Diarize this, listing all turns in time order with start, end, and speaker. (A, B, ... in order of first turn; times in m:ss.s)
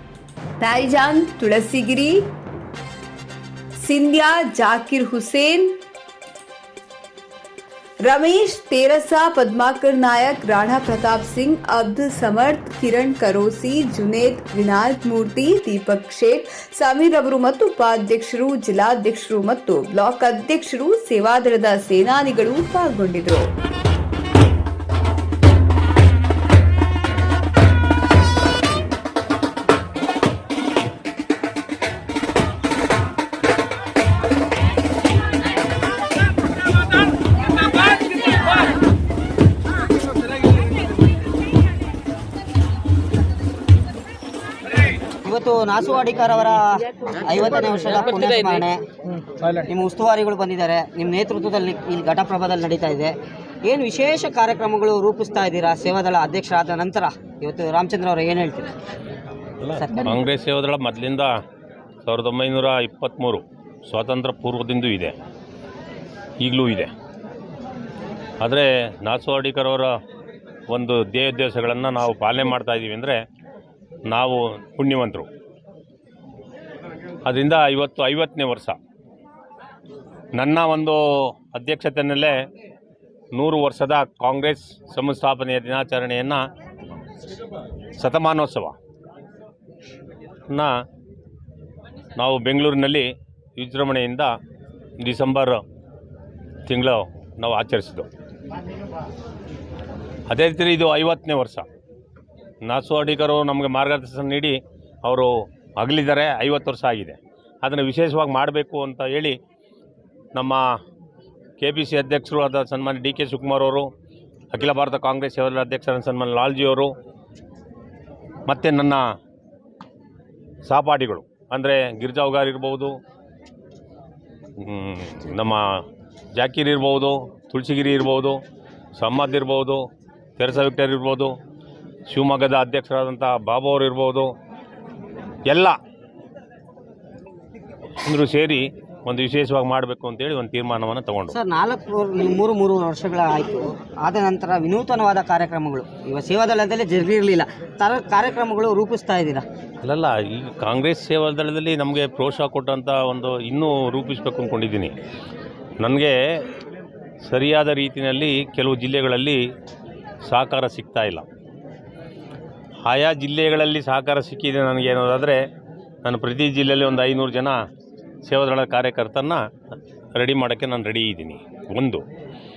0:00.6-0:02.2 A
0:03.8-0:05.8 A
0:08.0-0:23.5 A
0:45.2-0:48.8 B
0:49.6-0:58.7 B
0:59.6-1:01.3 C
0:59.8-1:00.1 B
1:02.0-1:05.1 C
1:06.4-1:06.9 C
1:08.4-1:09.9 C
1:10.7-1:13.2 C
1:14.1-1:15.3 C
1:17.2-1:18.8 C
1:20.4-1:22.4 C
1:23.3-1:26.4 C
1:28.0-1:28.7 C
1:32.2-1:34.3 C
1:35.0-1:35.6 C
1:36.7-1:38.1 C
1:40.3-1:41.6 C
1:42.6-1:49.4 C
1:50.3-1:50.6 C
1:51.6-1:53.9 C
1:54.5-1:56.9 C
1:58.5-1:59.0 C
2:00.6-2:02.9 C
2:04.6-2:05.8 C
2:06.4-2:08.4 C
2:09.0-2:09.8 C
2:10.4-2:11.3 C
2:12.1-2:14.3 C
2:15.5-2:15.8 C
2:18.0-2:21.4 C
2:21.3-2:29.4 B
2:29.8-2:34.9 C
2:35.8-2:36.2 C
2:37.2-2:39.4 C
2:40.2-2:41.2 C
2:42.8-2:45.4 C
2:46.0-2:47.6 C
2:48.2-2:49.4 C
2:50.1-2:52.0 C